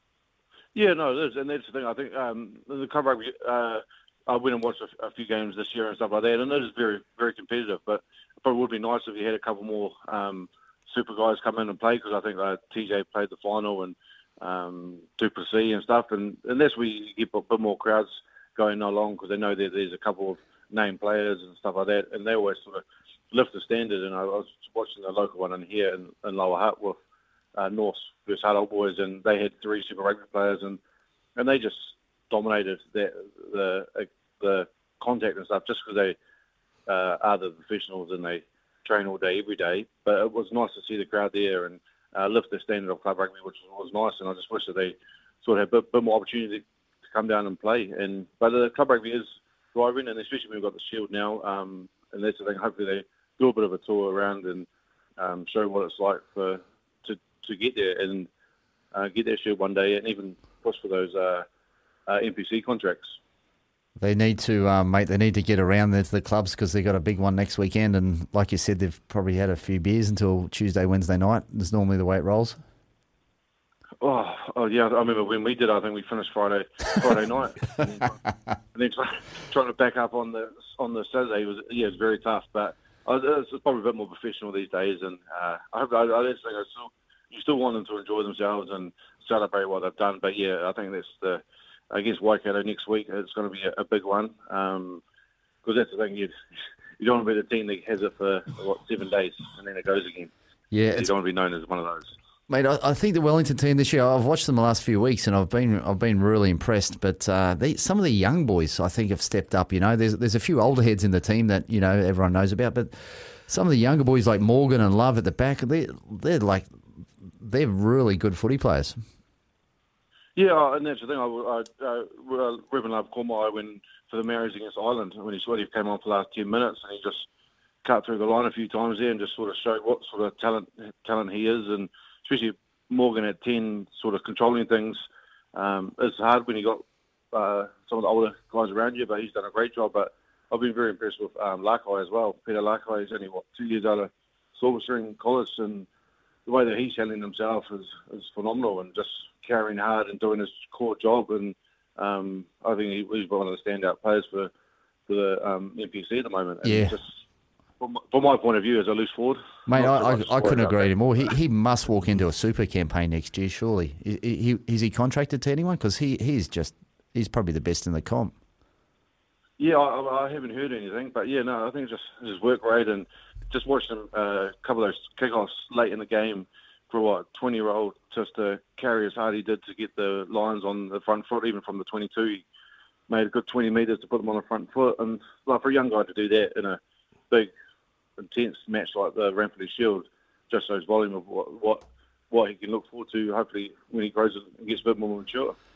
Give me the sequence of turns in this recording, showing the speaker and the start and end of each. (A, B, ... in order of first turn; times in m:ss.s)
0:00.8-0:27.0 A
0:27.6-0:30.8 A
0:31.4-0:36.2 A
0:36.9-0:54.7 A
0:55.2-0:58.3 A
0:58.9-1:01.5 A
1:02.1-1:03.2 A
1:04.0-1:12.6 B
1:14.0-1:18.2 A
1:18.7-1:35.0 A
1:35.6-1:36.3 A
1:37.0-1:40.3 A
1:40.7-1:41.1 B
1:40.9-1:42.2 A
1:42.5-1:56.7 B
1:57.4-1:59.0 B
2:00.4-2:07.3 A
2:07.8-2:25.9 A
2:26.5-2:34.5 A
2:35.1-2:37.2 A
2:36.6-2:37.0 B
2:37.8-2:41.0 A
2:39.7-2:48.3 B
2:49.6-3:02.4 A
3:03.1-3:07.5 A
3:08.2-3:15.6 A